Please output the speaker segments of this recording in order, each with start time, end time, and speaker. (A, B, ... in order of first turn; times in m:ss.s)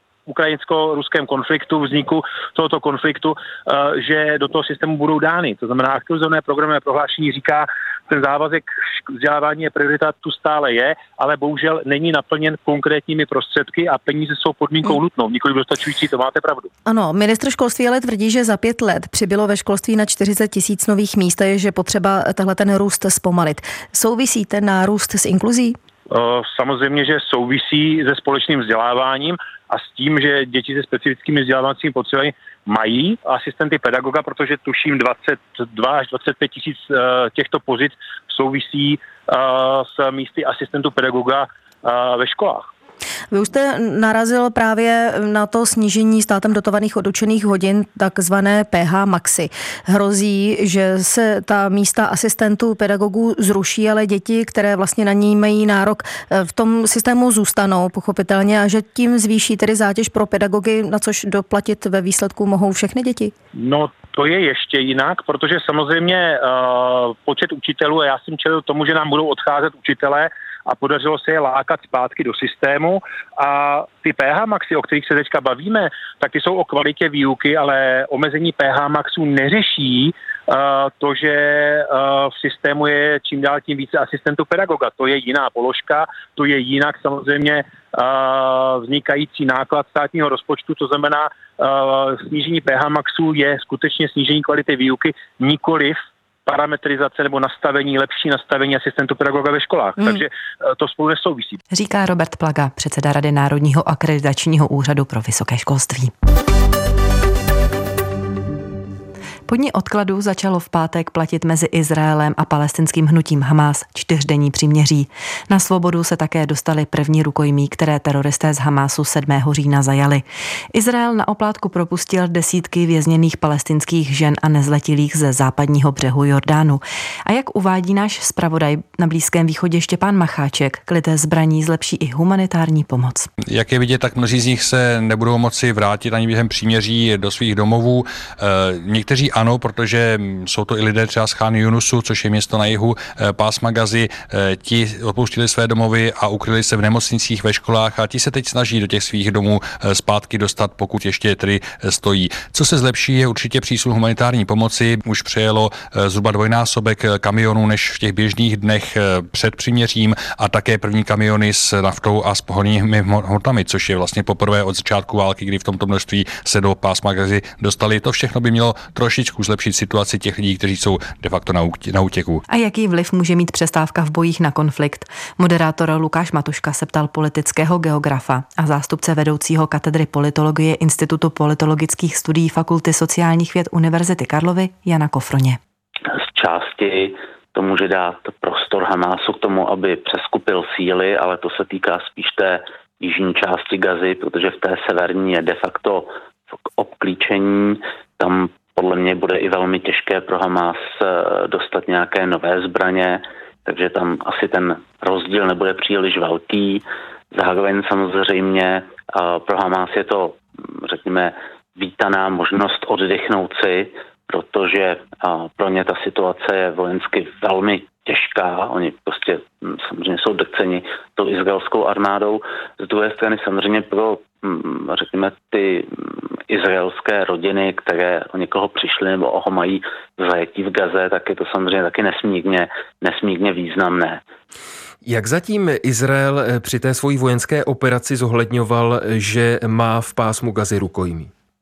0:00.3-0:16.7 A
0:16.8-0:25.8 B
0:26.1-0:42.7 A
0:43.3-1:03.3 B
1:03.6-1:41.6 A
1:41.7-1:46.1 C
1:49.5-2:13.3 C
2:13.5-2:52.4 D
2:52.5-3:05.6 C
3:06.1-3:16.1 E
3:16.8-3:54.2 E
3:55.0-4:01.3 F